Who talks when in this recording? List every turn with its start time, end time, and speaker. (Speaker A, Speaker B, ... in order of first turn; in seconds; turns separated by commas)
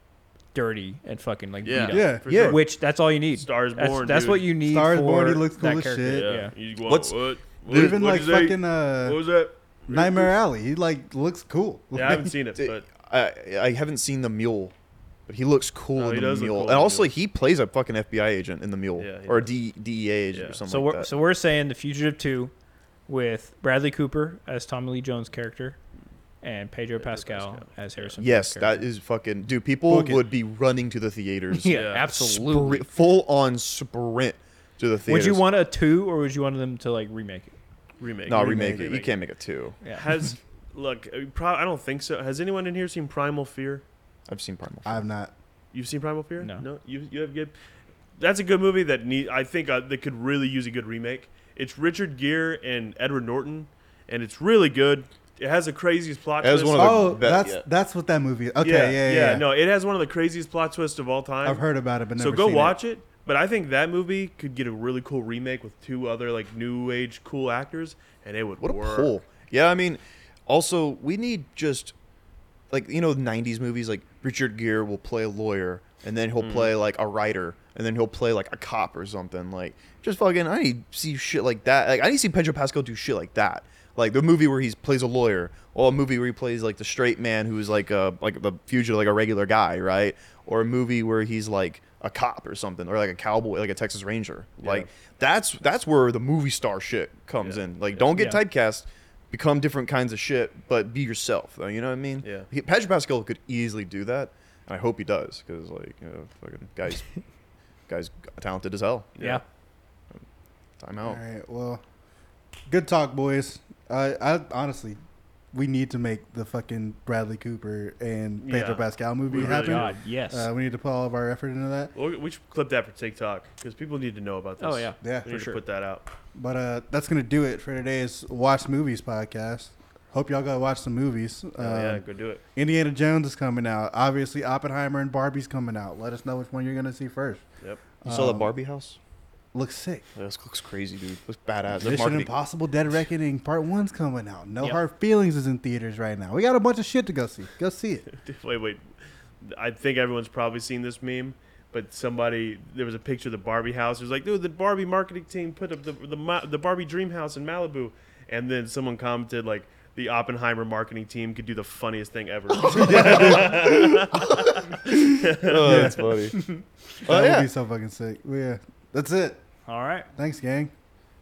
Speaker A: 0.5-6.5, Speaker B: 1.6-2.8, Speaker C: 1.9-2.3, Speaker D: 2.3-2.6, Speaker B: 3.3-4.5, Speaker C: 4.6-6.3, Speaker B: 6.1-10.3, Speaker D: 6.8-7.2, Speaker C: 7.7-9.2, Speaker C: 9.9-12.3, Speaker B: 11.9-12.8, Speaker D: 12.6-14.7, Speaker D: 15.3-21.1, Speaker B: 15.9-17.1, Speaker B: 19.0-19.5, Speaker B: 20.3-20.6, Speaker A: 20.7-22.5, Speaker A: 23.1-25.8, Speaker A: 26.4-28.9, Speaker B: 27.0-28.1, Speaker D: 28.2-35.4, Speaker C: 29.9-30.2, Speaker A: 31.5-32.9, Speaker B: 31.7-32.0, Speaker A: 35.1-37.5, Speaker B: 38.0-39.1, Speaker D: 38.3-39.8, Speaker C: 38.3-38.9, Speaker A: 39.8-40.1, Speaker B: 39.9-43.8, Speaker D: 44.3-45.0, Speaker C: 44.8-45.3, Speaker B: 45.7-47.5, Speaker A: 46.4-46.6, Speaker B: 48.2-57.2, Speaker D: 56.4-57.6, Speaker C: 56.7-59.5, Speaker B: 58.6-61.6, Speaker C: 61.4-62.8, Speaker B: 62.2-69.1, Speaker D: 68.6-71.9, Speaker D: 72.7-107.2, Speaker B: 76.4-76.7, Speaker B: 94.6-94.9, Speaker B: 97.4-98.0, Speaker A: 98.1-98.4, Speaker B: 102.2-102.5, Speaker D: 107.9-109.1, Speaker B: 109.2-109.4, Speaker A: 109.2-109.4, Speaker D: 110.8-111.2, Speaker C: 111.0-111.8, Speaker C: 112.7-115.0, Speaker C: 115.5-121.9, Speaker B: 118.4-119.9, Speaker A: 119.3-120.5, Speaker B: 121.9-126.1, Speaker A: 124.6-125.6, Speaker C: 125.0-125.3, Speaker C: 126.3-132.0, Speaker B: 131.6-132.4, Speaker C: 132.6-137.4, Speaker C: 138.0-138.5, Speaker D: 138.0-139.0, Speaker C: 139.5-140.1, Speaker D: 140.2-142.3, Speaker C: 141.7-148.0, Speaker B: 148.1-148.8, Speaker B: 149.4-166.2, Speaker D: 162.6-166.5, Speaker C: 162.7-163.9, Speaker C: 165.6-166.2, Speaker C: 167.0-169.4, Speaker D: 167.0-167.5, Speaker A: 169.7-170.1, Speaker C: 170.1-170.7